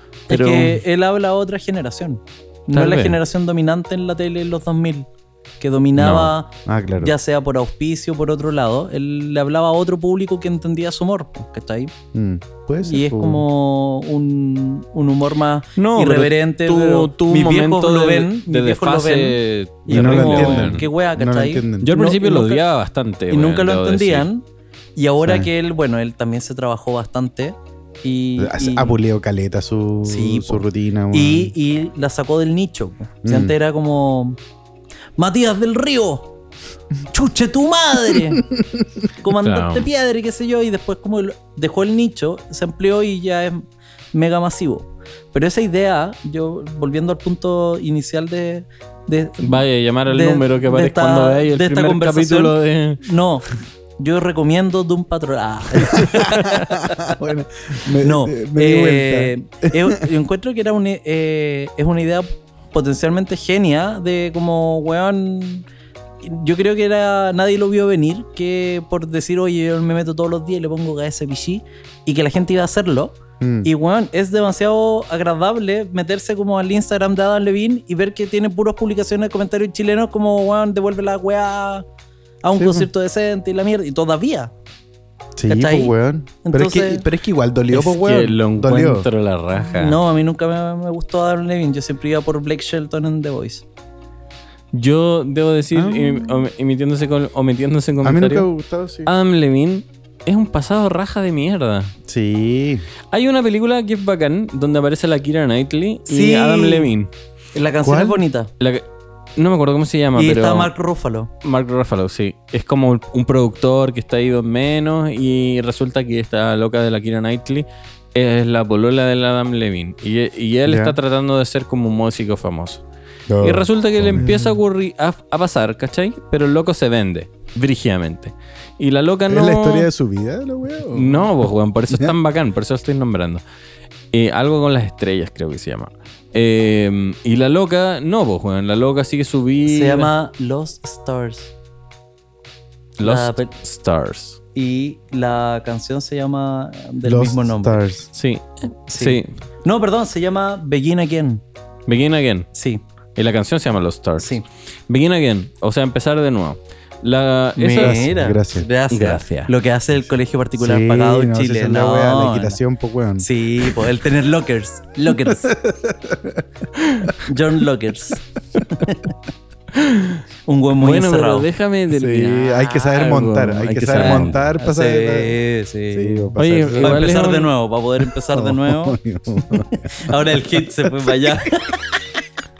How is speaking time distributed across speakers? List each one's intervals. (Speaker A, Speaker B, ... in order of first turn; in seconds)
Speaker A: 0.3-5.1, 5.6-11.9, 12.8-22.6, 23.3-24.4, 24.9-28.9, 30.0-34.4, 35.2-36.3, 37.1-38.5, 39.2-57.2, 58.0-65.7, 66.2-81.8, 82.4-84.5, 85.5-87.0, 89.7-93.6, 106.1-106.9, 107.5-108.5, 110.1-111.3, 139.6-141.5, 143.0-143.5, 144.5-147.8, 148.9-151.4, 152.5-152.8, 154.2-154.4, 157.6-162.6, 163.2-165.5, 167.2-169.1, 170.5-171.5, 173.9-179.0, 179.7-181.8
Speaker B: 0.3-0.8, 2.7-3.2, 6.0-6.3, 15.8-20.9, 21.8-24.3, 39.4-39.9, 49.4-53.0, 87.7-90.0, 94.7-98.5, 99.0-101.9, 103.1-107.1, 108.6-108.8, 109.4-110.7, 111.4-122.8, 123.4-129.9, 130.9-133.4, 134.1-140.1, 143.0-144.4, 148.1-149.2, 151.9-152.5, 153.2-158.0, 158.9-159.5, 166.8-167.1, 169.7-170.2, 170.8-174.4, 176.4-177.5
Speaker C: 6.7-7.1, 12.1-13.4, 19.9-21.9, 25.2-25.5, 28.4-31.5, 33.2-33.5, 38.4-38.8, 55.9-60.0, 73.4-73.7, 82.6-82.9, 85.3-89.1, 95.7-96.4, 98.0-99.1, 102.1-102.8, 107.8-108.2, 120.7-121.0, 123.3-124.6, 129.3-131.3, 131.9-132.2, 147.0-148.1, 157.8-158.7, 160.6-163.9, 165.1-166.4, 171.9-175.3, 175.9-177.2, 178.3-181.3